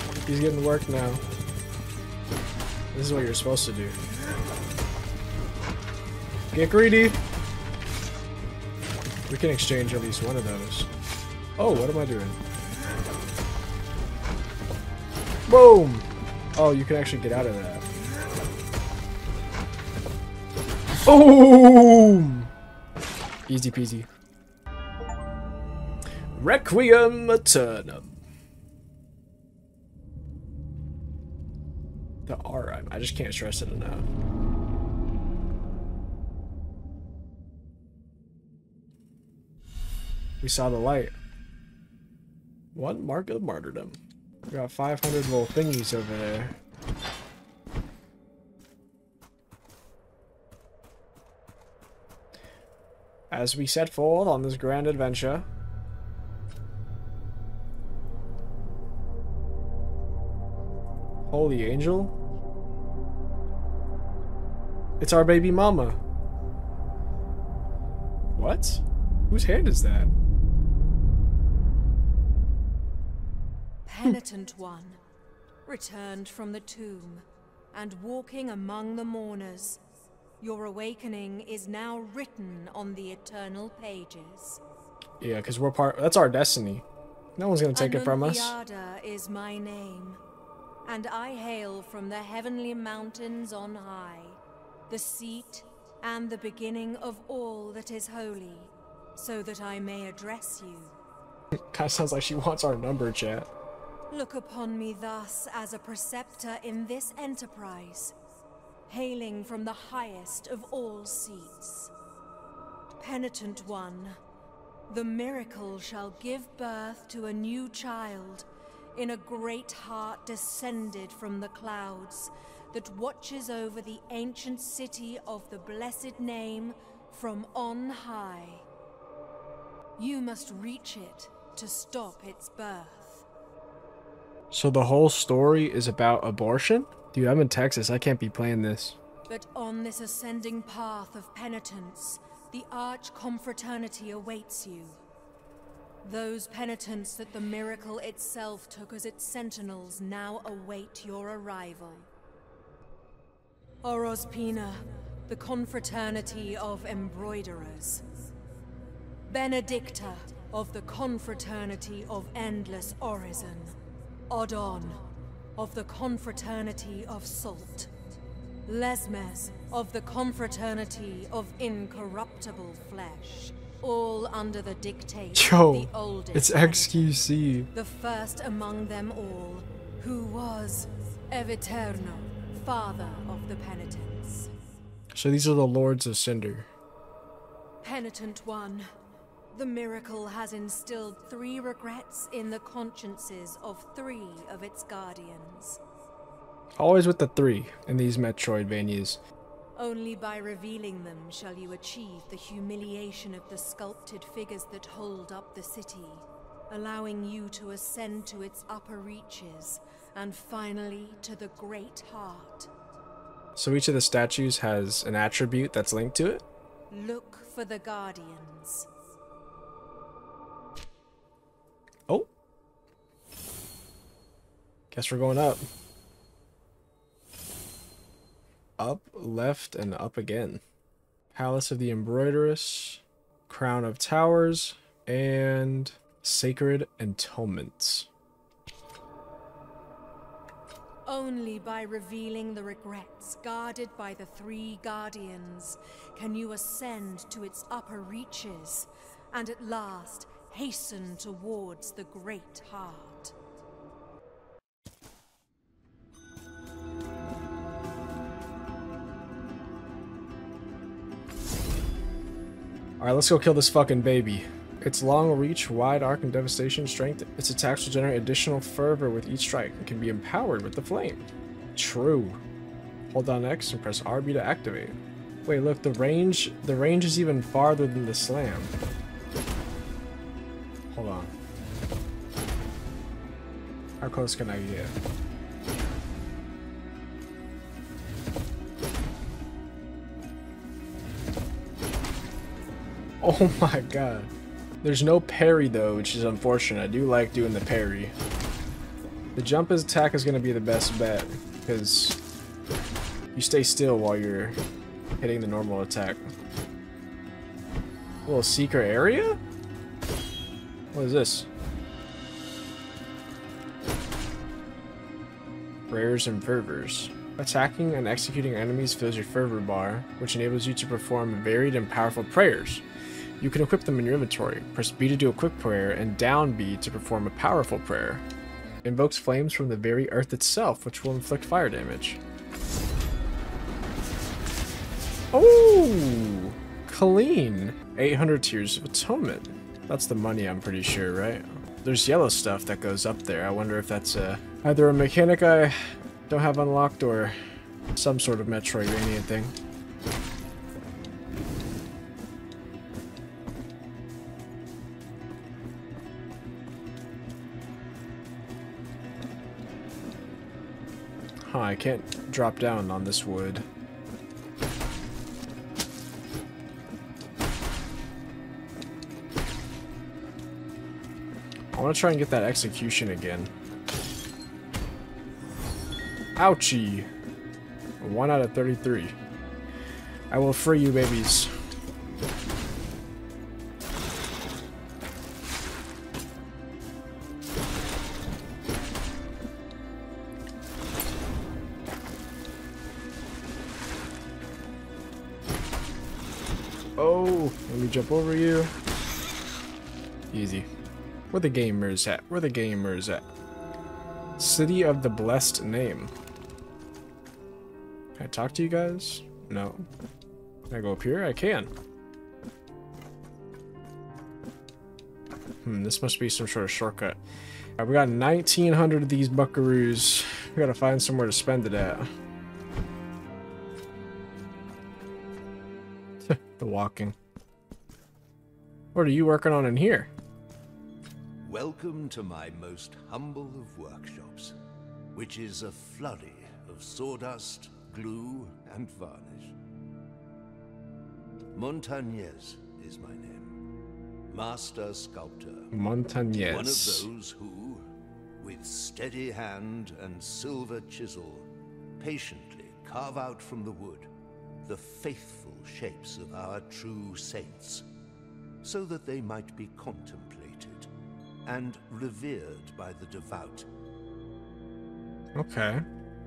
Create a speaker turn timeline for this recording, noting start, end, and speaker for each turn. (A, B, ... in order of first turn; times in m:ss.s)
0:00.2-0:01.2 A
0:02.9-0:04.0 A
0:06.5-0:07.2 A
0:09.3-0:10.9 A
0:11.6-0:12.4 A
0:15.5-0:17.8 A
0:21.0-0:22.5 A
0:23.5-0:24.1 A
0:26.3-0:28.2 A
0:32.2-0:34.1 A
0:40.4-0:41.1 A
0:42.7-0:44.0 A
0:44.5-0:46.6 A
0:53.3-0:55.5 A
1:01.3-1:02.1 A
1:05.0-1:06.0 A
1:08.4-1:10.1 A
1:13.8-1:15.0 B
1:15.6-1:19.8 B
1:20.4-1:24.6 B
1:25.2-1:26.8 A
1:27.4-1:28.6 A
1:27.7-1:30.2 B
1:30.8-1:34.4 B
1:34.9-1:41.0 B
1:41.7-1:43.5 A
1:44.1-1:48.1 B
1:48.9-1:51.9 B
1:53.0-1:54.2 B
1:54.9-2:08.6 B
2:10.0-2:13.2 B
2:14.5-2:19.0 A
2:19.3-2:25.0 B
2:26.0-2:32.1 B
2:33.8-2:38.0 B
2:39.3-2:43.7 B
2:44.3-2:47.9 B
2:48.7-3:04.5 B
2:55.3-2:57.7 A
3:05.1-3:06.7 A
3:07.8-3:08.9 B
3:09.5-3:15.8 B
3:16.8-3:19.2 A
3:19.8-3:32.7 B
3:33.6-3:36.4 A
3:36.9-3:38.9 B
3:44.9-3:45.6 A
3:48.8-3:50.6 A
3:51.3-3:58.1 A
4:01.0-4:13.3 B
4:23.0-4:32.4 A
4:33.1-4:38.7 A
4:40.9-4:41.3 A
4:44.0-4:44.9 A
4:53.2-4:54.3 A
4:54.8-4:58.1 A
4:59.4-5:02.2 A
5:03.3-5:04.6 A
5:05.2-5:06.2 A
5:08.2-5:09.4 A
5:10.9-5:11.5 A
5:15.9-5:22.8 A
5:23.4-5:28.2 A
5:28.8-5:32.2 A
5:35.3-5:45.8 A
5:46.3-5:47.4 A
5:48.0-5:49.5 A
6:01.4-6:03.6 A
6:11.7-6:13.5 A
6:16.4-6:17.1 A
6:18.0-6:19.1 A
6:20.3-6:21.5 A
6:37.0-6:38.7 A
6:40.3-6:40.7 A
6:41.3-6:43.2 A
6:44.4-6:46.1 A
6:48.2-6:49.9 A
6:50.7-6:51.7 A
6:55.6-6:57.2 A
6:57.8-7:02.1 A
7:06.2-7:07.2 A
7:08.9-7:10.1 A
7:11.4-7:14.6 C
7:15.1-7:19.6 C
7:21.5-7:23.6 C
7:24.3-7:25.7 C
7:25.7-7:27.1 A
7:26.3-7:27.8 C
7:28.4-7:31.5 C
7:32.0-7:34.1 C
7:34.6-7:37.8 C
7:38.6-7:40.9 C
7:41.4-7:43.7 C
7:45.4-7:45.8 A